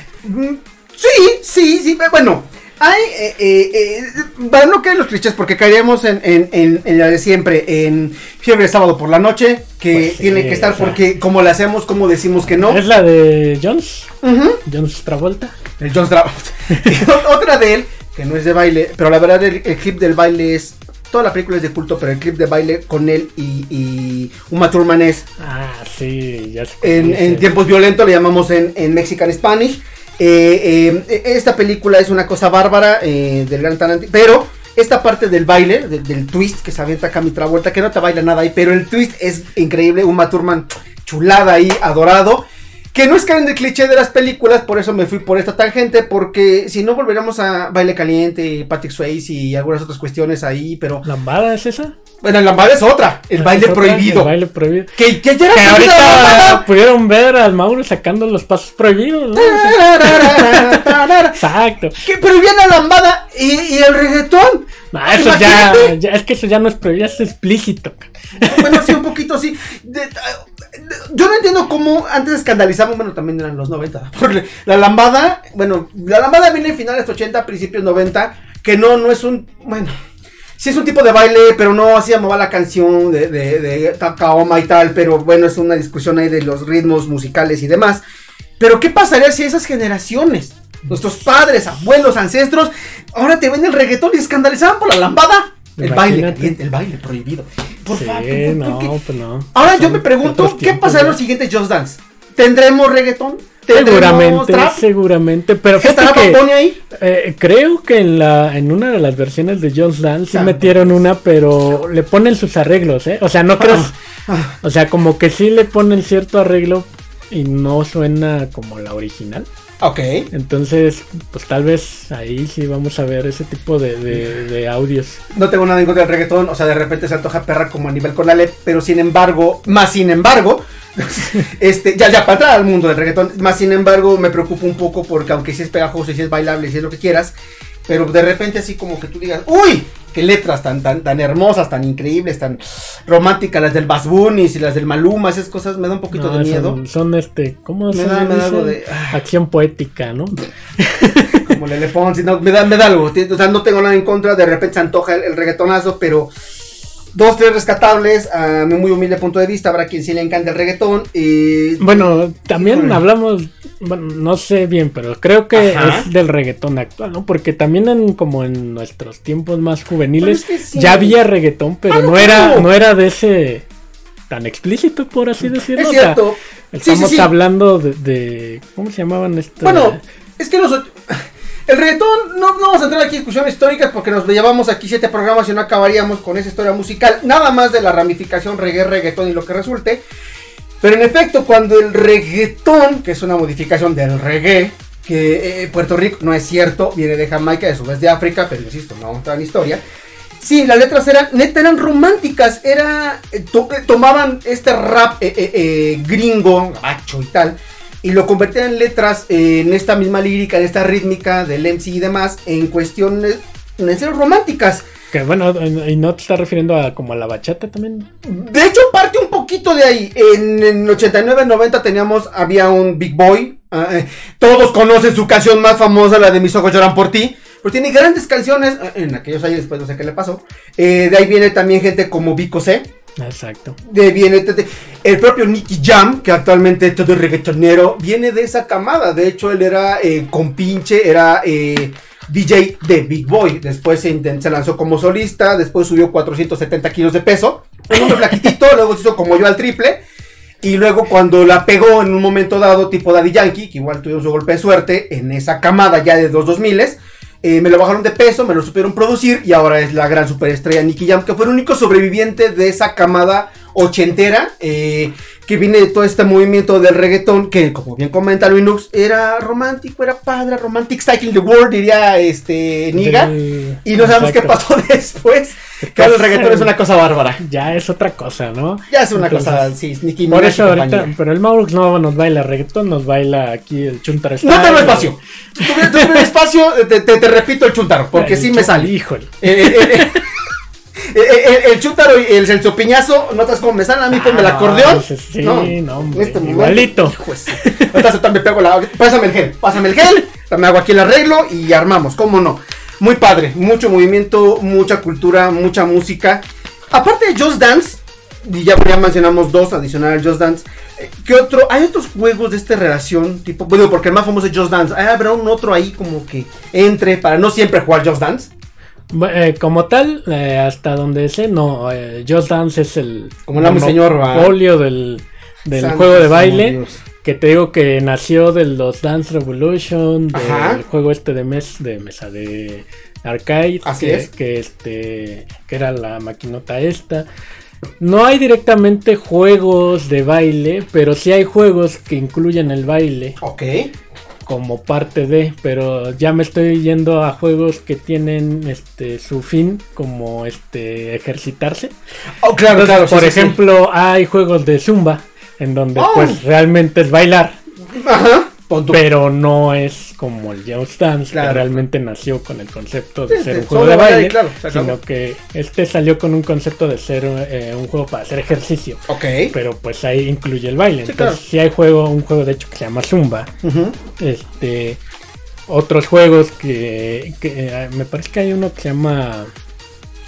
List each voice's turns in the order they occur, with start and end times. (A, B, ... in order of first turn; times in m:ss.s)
0:00.2-0:12.8 A
0:09.9-0:11.0 B
0:12.5-0:14.1 B
0:14.2-0:14.6 A
0:14.6-0:15.6 B
0:15.8-0:25.2 A
0:25.4-0:27.5 B
0:26.8-0:51.0 A
0:51.0-0:51.9 B
0:52.2-0:54.3 A
0:53.4-0:55.0 B
0:55.0-0:56.6 A
0:55.5-1:02.0 B
0:59.4-1:01.4 A
1:02.0-1:06.0 A
1:04.9-1:09.0 B
1:08.4-1:19.9 A
1:20.6-1:28.0 A
1:28.6-1:38.9 A
1:35.8-1:36.6 B
1:37.9-1:41.2 B
1:39.6-1:44.8 A
1:43.7-1:54.0 B
1:45.8-1:46.8 A
1:50.3-1:51.0 A
1:53.6-1:54.5 A
1:54.6-1:59.5 B
1:59.8-2:00.3 A
2:00.3-2:05.2 B
2:05.3-2:17.4 A
2:17.9-2:26.8 A
2:26.1-2:31.6 B
2:27.9-2:29.2 A
2:31.4-2:36.3 A
2:37.1-2:43.0 A
2:41.8-2:53.7 B
2:45.5-2:46.1 A
2:50.2-2:51.2 A
2:51.9-2:52.7 A
2:54.3-2:56.2 B
2:55.7-2:57.3 A
2:56.7-3:00.0 B
2:59.6-3:10.0 A
3:10.8-3:19.8 A
3:20.4-3:34.9 A
3:35.1-3:38.1 B
3:38.2-3:52.9 A
3:53.2-3:53.8 B
3:53.8-4:10.0 A
4:10.6-4:33.3 A
4:33.0-4:34.6 B
4:33.8-4:37.4 A
4:35.8-4:36.7 B
4:37.4-4:39.7 B
4:38.9-4:41.1 A
4:40.3-4:46.3 B
4:44.4-4:48.9 A
4:48.1-4:50.2 B
4:49.4-4:50.2 A
4:51.0-5:18.5 A
4:54.1-4:58.0 B
5:19.1-5:37.3 B
5:23.5-5:24.6 A
5:25.7-5:27.0 A
5:30.3-5:30.8 A
5:33.8-5:34.3 A
5:38.0-5:43.4 B
5:43.4-5:43.9 A
5:44.5-5:51.9 B
5:52.4-5:53.6 A
5:52.7-5:57.6 B
5:56.0-5:56.4 A
5:58.0-5:59.0 A
5:58.9-6:13.5 B
6:01.3-6:01.8 A
6:03.3-6:05.0 A
6:09.1-6:09.5 A
6:11.1-6:11.4 A
6:13.6-6:14.0 A
6:14.2-6:15.0 B
6:15.7-6:19.5 B